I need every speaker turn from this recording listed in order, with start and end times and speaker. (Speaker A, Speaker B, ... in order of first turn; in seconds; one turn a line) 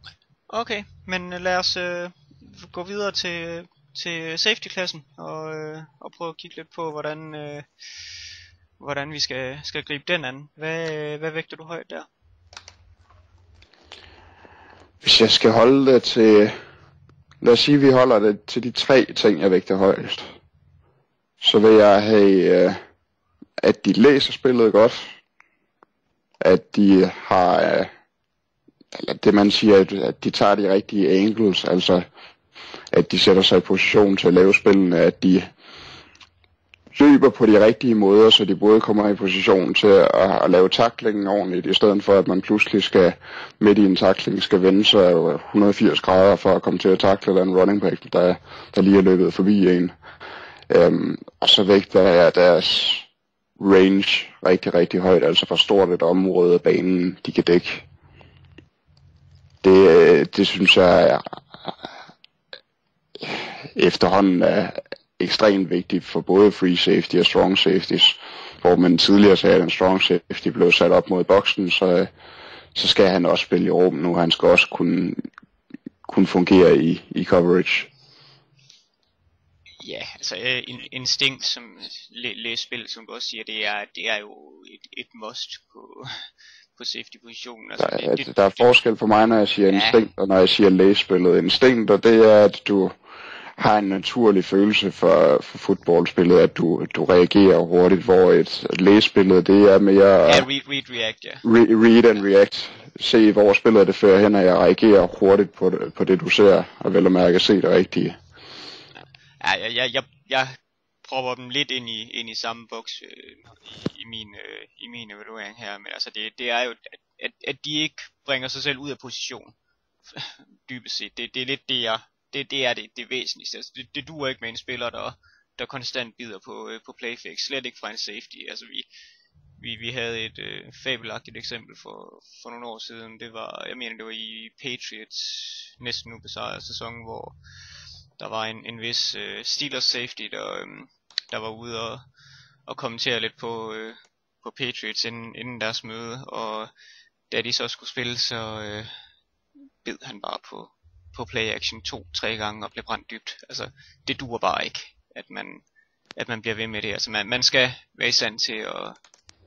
Speaker A: 0.5-12.1
Speaker B: 15.0-16.5
Speaker B: 17.4-20.2
Speaker B: 21.4-22.8
Speaker B: 23.6-25.1
Speaker B: 26.4-27.9
Speaker B: 28.9-32.0
Speaker B: 32.9-35.5
Speaker B: 36.9-49.9
Speaker B: 50.7-53.0
Speaker B: 53.6-57.9
Speaker B: 59.6-61.9
Speaker B: 63.2-72.1
Speaker B: 72.7-75.2
Speaker B: 76.0-77.9
Speaker A: 79.8-86.1
Speaker A: 86.8-88.6
Speaker B: 87.8-92.9
Speaker A: 89.7-90.0
Speaker B: 93.6-100.5
Speaker A: 100.3-101.4
Speaker B: 101.4-108.2
Speaker A: 109.4-119.5
Speaker A: 120.1-128.9
Speaker A: 129.6-137.3
Speaker A: 138.2-142.0
Speaker A: 142.7-146.7
Speaker A: 147.3-148.9
Speaker A: 149.8-155.6
Speaker A: 156.2-159.0